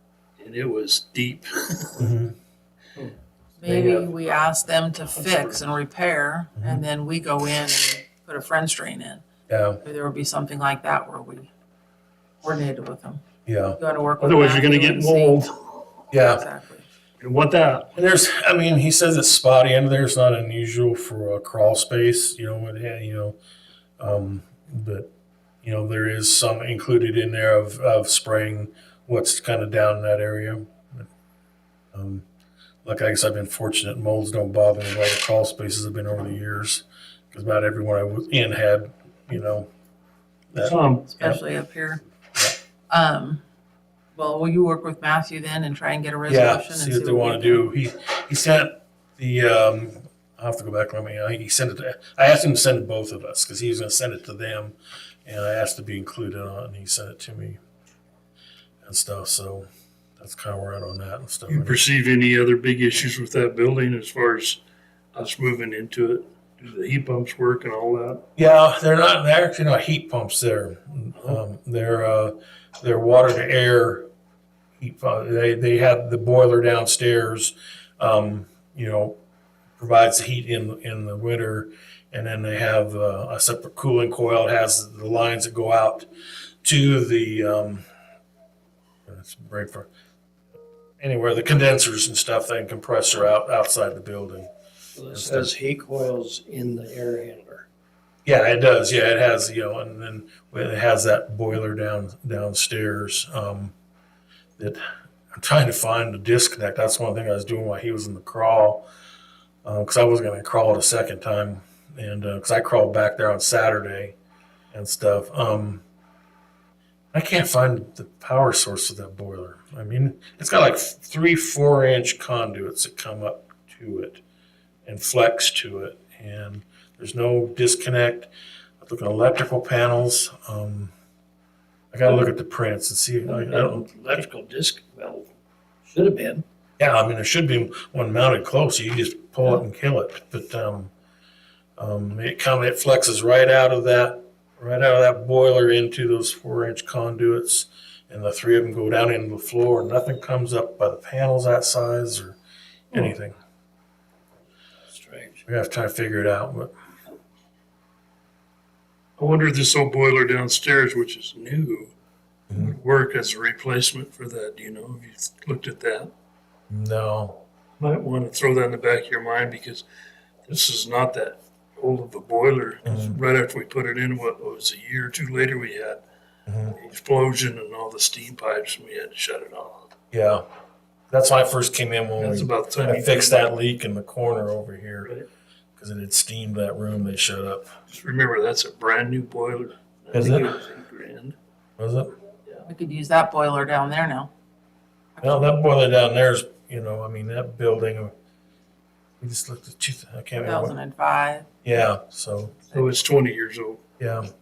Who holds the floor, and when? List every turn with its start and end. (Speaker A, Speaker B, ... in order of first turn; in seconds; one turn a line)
Speaker A: 0.4-2.0
Speaker B: 2.0-2.3
Speaker C: 3.6-9.2
Speaker A: 3.6-4.1
Speaker A: 5.2-5.5
Speaker B: 9.5-9.8
Speaker C: 9.8-11.5
Speaker C: 12.4-13.2
Speaker B: 13.4-13.8
Speaker C: 13.8-15.5
Speaker A: 14.2-15.6
Speaker B: 16.1-16.4
Speaker C: 16.1-16.9
Speaker A: 17.2-17.9
Speaker B: 17.9-23.4
Speaker B: 24.0-25.1
Speaker B: 25.6-31.1
Speaker B: 31.9-32.2
Speaker B: 32.8-39.7
Speaker B: 40.5-41.4
Speaker A: 40.5-41.1
Speaker C: 41.1-42.0
Speaker C: 42.9-43.4
Speaker C: 44.1-47.7
Speaker B: 46.3-57.6
Speaker B: 58.8-59.6
Speaker B: 60.2-61.8
Speaker A: 61.5-64.6
Speaker A: 65.1-68.2
Speaker B: 68.3-74.1
Speaker B: 74.8-79.2
Speaker B: 79.8-86.1
Speaker B: 86.6-87.8
Speaker B: 89.1-89.9
Speaker B: 91.0-94.5
Speaker D: 95.0-97.7
Speaker B: 95.1-95.5
Speaker B: 98.2-103.7
Speaker B: 105.3-108.8
Speaker B: 109.6-114.2
Speaker B: 114.7-115.8
Speaker B: 117.1-124.2
Speaker B: 124.8-130.9
Speaker B: 131.9-134.2
Speaker D: 133.3-135.3
Speaker D: 135.8-136.4
Speaker B: 136.8-140.9
Speaker B: 141.8-152.4
Speaker B: 152.9-153.3
Speaker A: 154.9-155.3
Speaker B: 155.4-156.7
Speaker A: 159.2-161.9
Speaker A: 162.5-166.1
Speaker B: 166.7-167.4
Speaker A: 167.8-169.8
Speaker A: 170.4-176.0
Speaker B: 172.8-173.2
Speaker B: 176.5-176.7
Speaker A: 176.7-179.9
Speaker B: 180.1-180.4
Speaker B: 181.1-185.1
Speaker A: 182.2-183.4
Speaker B: 185.8-187.7
Speaker A: 187.9-191.3
Speaker B: 190.1-190.5
Speaker B: 191.8-192.1
Speaker C: 192.7-194.3
Speaker C: 195.2-195.5
Speaker B: 195.2-198.1
Speaker B: 199.2-200.7
Speaker C: 200.4-201.5
Speaker B: 201.6-202.6
Speaker A: 202.7-203.8
Speaker B: 204.0-204.3